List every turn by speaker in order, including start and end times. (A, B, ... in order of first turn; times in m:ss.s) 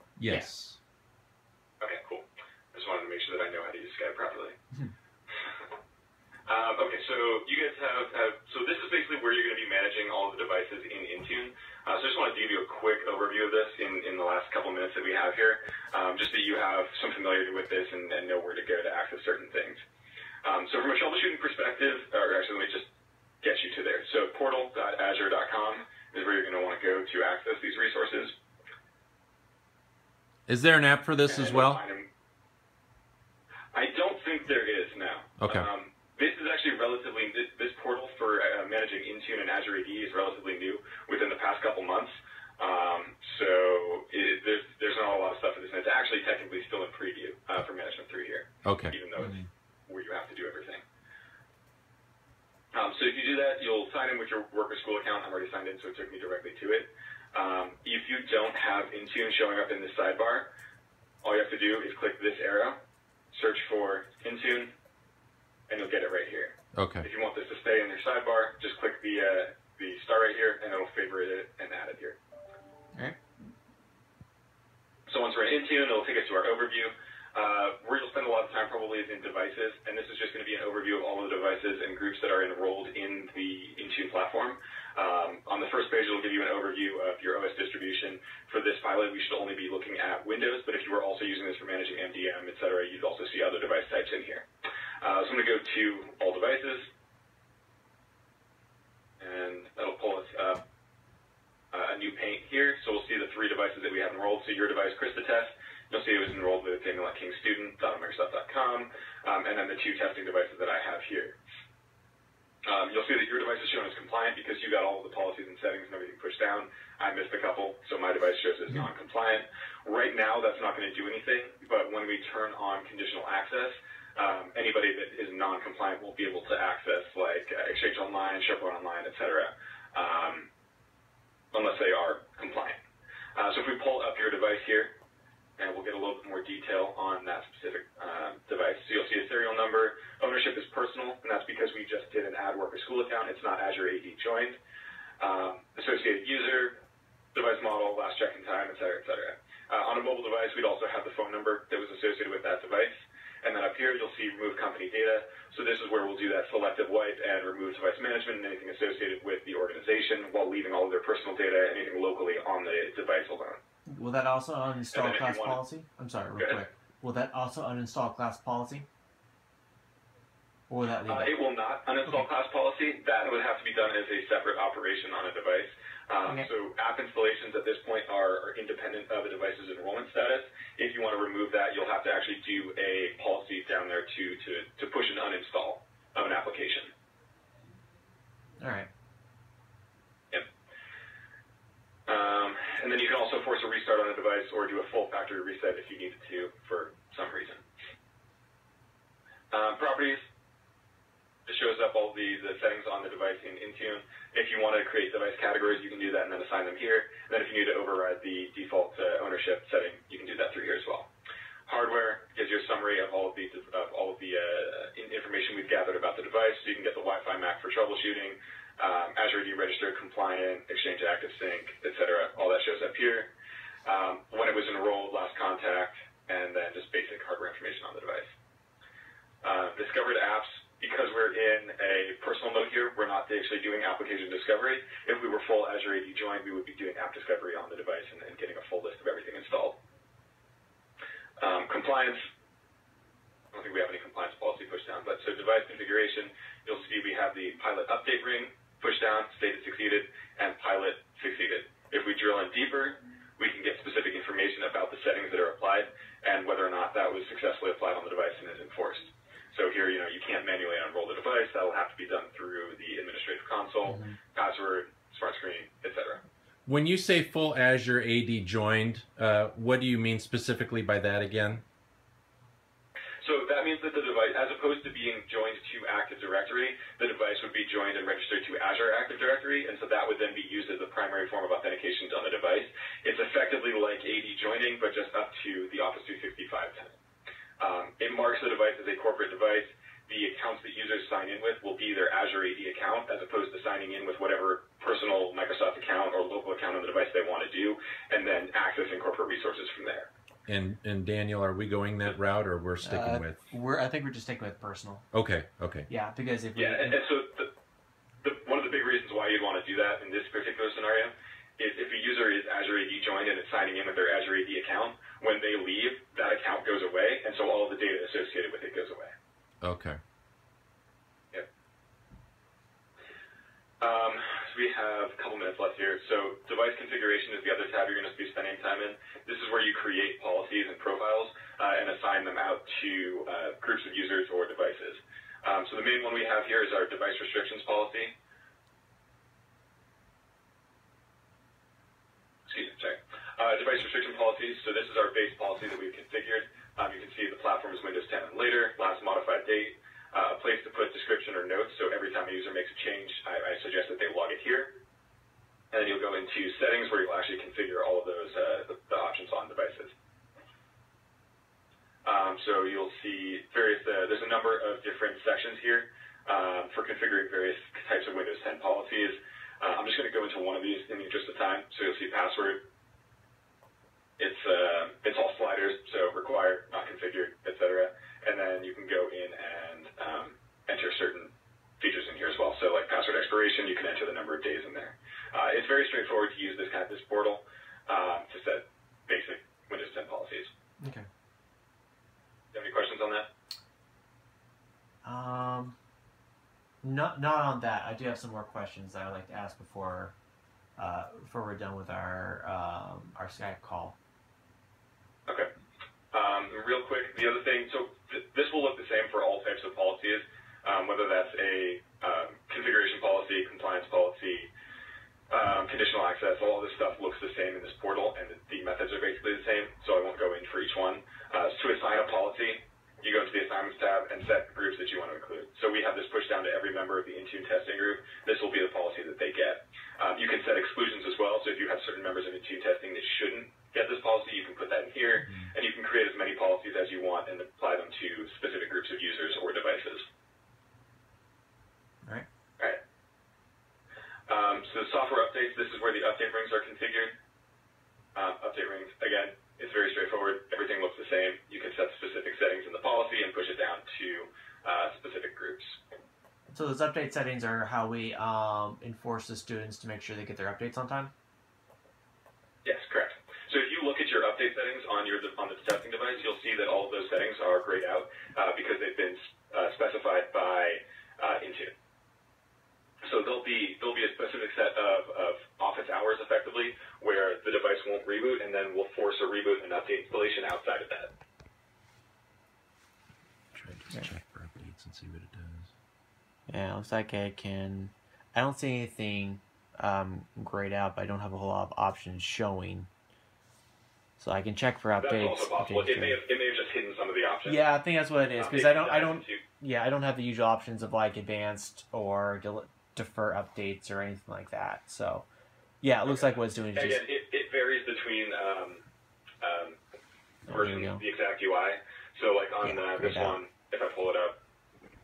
0:00.2-0:00.8 A
0:00.2-0:00.5 B
0:01.8-0:04.6 C
0:06.5-0:19.8 C
0:20.4-0:22.9 C
0:23.4-0:28.3 C
0:30.5-0:31.8 A
0:31.2-0:32.1 C
0:33.7-0:50.8 C
0:35.4-0:35.7 A
0:48.6-0:49.0 A
0:52.7-1:00.5 C
1:01.2-1:02.8 C
1:03.3-1:04.7 C
1:05.7-1:12.2 C
1:06.8-1:07.0 A
1:15.1-1:34.4 C
1:35.0-1:36.9 C
1:39.2-1:40.6 C
1:41.7-1:51.4 C
1:52.6-2:10.5 C
2:11.5-2:12.8 C
2:13.4-2:14.9 C
2:15.6-2:24.6 C
2:25.2-2:26.8 C
2:27.3-2:43.6 C
2:43.9-2:48.9 B
2:44.9-2:45.6 C
2:50.7-2:51.3 B
2:51.1-3:06.9 C
3:08.6-3:08.9 B
3:12.1-3:17.6 C
3:19.5-3:20.2 C
3:21.5-3:31.1 C
3:31.7-3:43.3 C
3:43.8-3:48.3 C
3:49.4-3:59.8 C
4:01.4-4:02.2 C
4:03.5-4:26.2 C
4:23.9-4:24.2 B
4:26.6-4:31.6 A
4:33.2-4:47.0 C
4:47.6-5:00.1 C
5:00.5-5:03.4 A
5:02.8-5:05.1 B
5:05.1-5:05.9 A
5:05.9-5:07.0 B
5:06.5-5:07.5 C
5:08.2-5:19.1 C
5:19.6-5:20.0 A
5:23.8-5:38.1 C
5:42.4-5:54.8 C
5:55.7-5:59.9 C
6:02.0-6:12.6 C
6:14.2-6:30.5 C
6:30.8-6:31.1 B
6:32.5-6:33.3 C
6:35.0-6:35.8 B
6:36.8-6:40.1 B
6:40.8-6:44.0 B
6:46.1-6:54.5 C
6:55.3-7:20.0 C
7:24.3-7:27.1 C
7:28.1-7:35.8 C
7:36.5-7:41.1 B
7:42.6-7:51.7 C
7:53.0-8:01.1 C
8:03.5-8:05.7 A
8:06.5-8:12.9 B
8:14.2-8:16.2 B
8:15.0-8:17.6 C
8:17.4-8:25.3 B
8:18.4-8:19.4 C
8:25.8-8:27.0 B
8:26.0-8:28.8 C
8:29.4-8:29.8 C
8:30.4-8:31.0 B
8:30.5-8:34.4 C
8:32.6-8:33.4 B